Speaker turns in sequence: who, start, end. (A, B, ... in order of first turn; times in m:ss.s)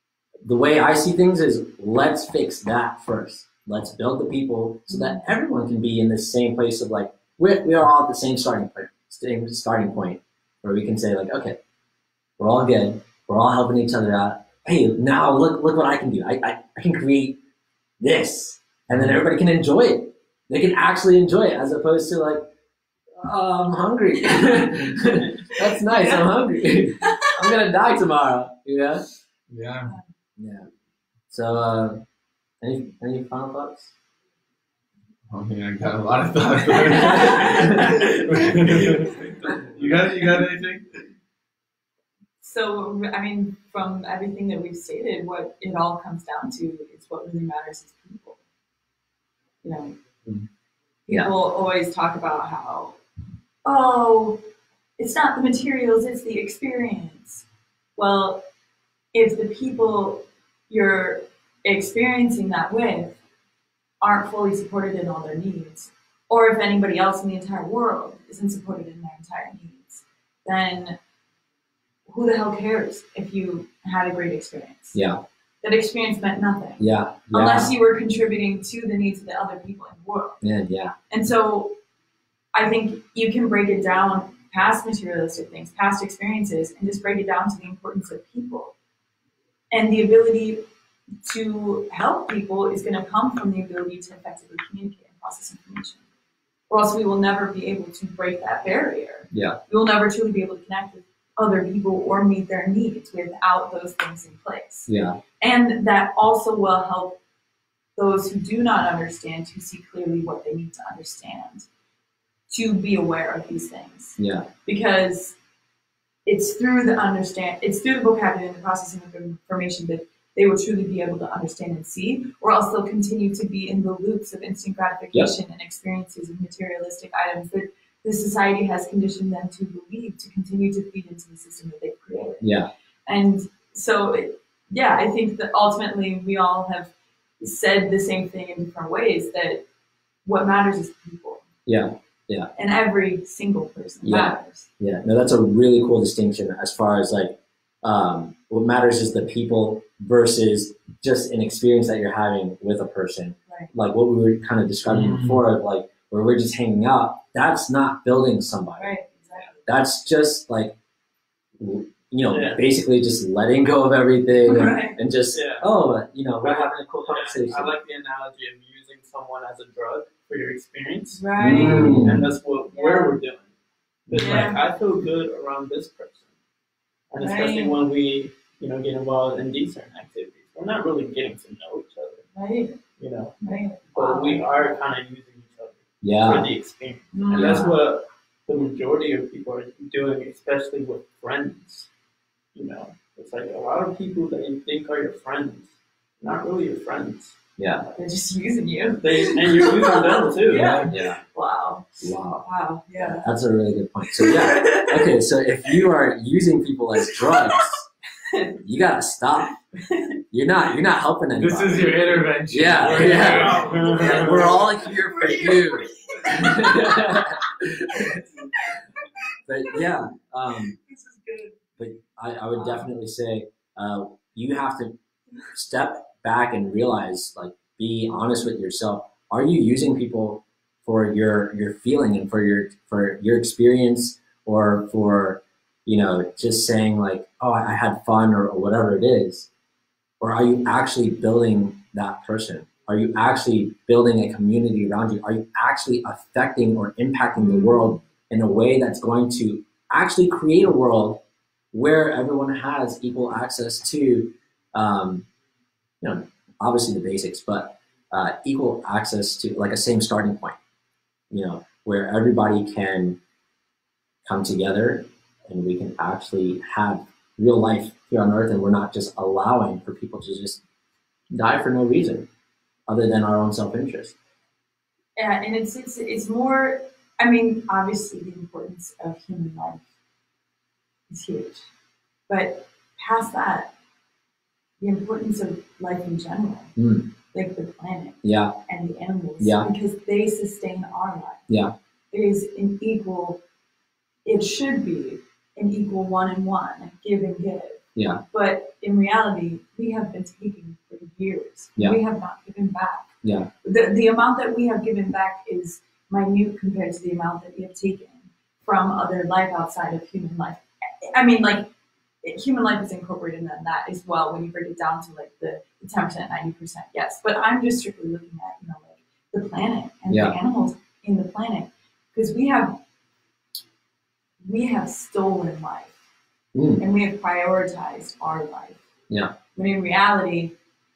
0:00.4-0:11.6 A
0:04.9-0:05.2 B
0:12.4-0:17.4 A
0:18.0-0:22.4 A
0:18.9-0:19.2 C
0:23.2-0:29.0 A
0:24.4-0:24.7 B
0:25.5-0:26.2 B
0:27.0-0:27.3 B
0:29.5-0:29.9 C
0:30.4-0:30.7 A
0:31.3-0:32.0 A
0:32.6-0:33.9 A
0:35.3-0:39.1 C
0:36.9-0:37.9 B
0:37.3-0:40.3 D
0:39.7-0:40.8 C
0:42.4-0:48.4 B
0:49.6-0:49.9 B
0:51.1-0:53.0 B
0:53.6-0:54.4 B
0:55.0-0:57.4 B
0:58.0-0:58.4 B
0:59.1-1:03.2 B
1:04.0-1:10.9 B
1:12.1-1:15.0 B
1:14.9-1:15.2 A
1:15.6-1:20.4 B
1:16.8-1:17.7 A
1:20.4-1:20.9 A
1:21.1-1:21.7 B
1:22.5-1:28.7 B
1:29.7-1:30.6 B
1:31.2-1:36.0 B
1:36.7-1:44.9 B
1:39.3-1:39.6 A
1:44.9-1:45.2 A
1:45.4-1:47.2 B
1:48.0-1:51.7 B
1:52.5-1:55.4 B
1:54.2-1:54.5 A
1:56.2-2:12.5 B
2:12.4-2:12.7 A
2:13.1-2:19.6 B
2:20.2-2:21.4 B
2:21.6-2:22.5 A
2:22.6-2:24.7 B
2:24.0-2:39.0 A
2:34.9-2:35.4 C
2:38.8-2:39.6 B
2:39.6-2:40.7 A
2:41.6-2:47.7 A
2:42.3-2:42.6 D
2:44.4-2:45.0 B
2:45.3-2:45.7 D
2:46.4-2:53.5 D
2:51.2-2:52.0 B
2:51.4-2:52.3 A
2:51.8-2:52.1 C
2:52.7-2:53.2 B
2:54.1-2:54.5 C
2:54.1-2:56.3 D
2:54.1-2:54.6 B
2:57.1-3:02.2 D
2:57.2-2:57.8 B
3:02.3-3:02.8 B
3:03.0-3:11.9 D
3:03.4-3:04.7 B
3:06.0-3:06.5 A
3:07.1-3:07.8 B
3:07.3-3:07.7 A
3:12.5-3:17.4 D
3:17.6-3:17.9 A
3:17.9-3:23.3 B
3:19.0-3:20.8 D
3:20.5-3:20.9 C
3:20.8-3:21.2 A
3:22.0-3:22.4 A
3:23.0-3:27.9 A
3:24.1-3:25.1 B
3:27.2-3:27.7 B
3:28.3-3:28.6 B
3:28.6-3:29.5 A
3:29.8-3:30.2 B
3:30.3-3:38.2 A
3:31.3-3:34.5 C
3:32.8-3:34.6 D
3:33.0-3:37.4 B
3:37.9-3:38.8 B
3:39.5-3:40.7 A
3:40.8-3:41.5 B
3:41.8-3:45.0 A
3:42.5-3:42.8 B
3:45.5-3:59.5 A
4:00.2-4:15.2 A
4:07.4-4:08.0 B
4:16.0-4:20.6 A
4:21.3-4:23.2 A
4:24.2-4:30.6 A
4:31.3-4:32.3 A
4:32.9-4:34.1 A
4:35.2-4:39.8 B
4:41.1-4:41.7 B
4:42.3-4:43.7 B
4:44.8-4:46.7 B
4:46.8-4:47.1 A
4:47.3-4:51.5 B
4:48.2-4:48.6 A
4:49.4-4:49.7 A
4:52.1-4:53.4 B
4:54.2-5:03.1 B
4:58.0-4:58.2 A
5:03.2-5:03.5 A
5:03.6-5:11.7 B
5:12.2-5:22.8 B
5:20.1-5:20.4 A
5:24.4-5:26.0 B
5:26.5-5:26.8 A
5:26.8-5:28.8 B
5:29.5-5:30.5 B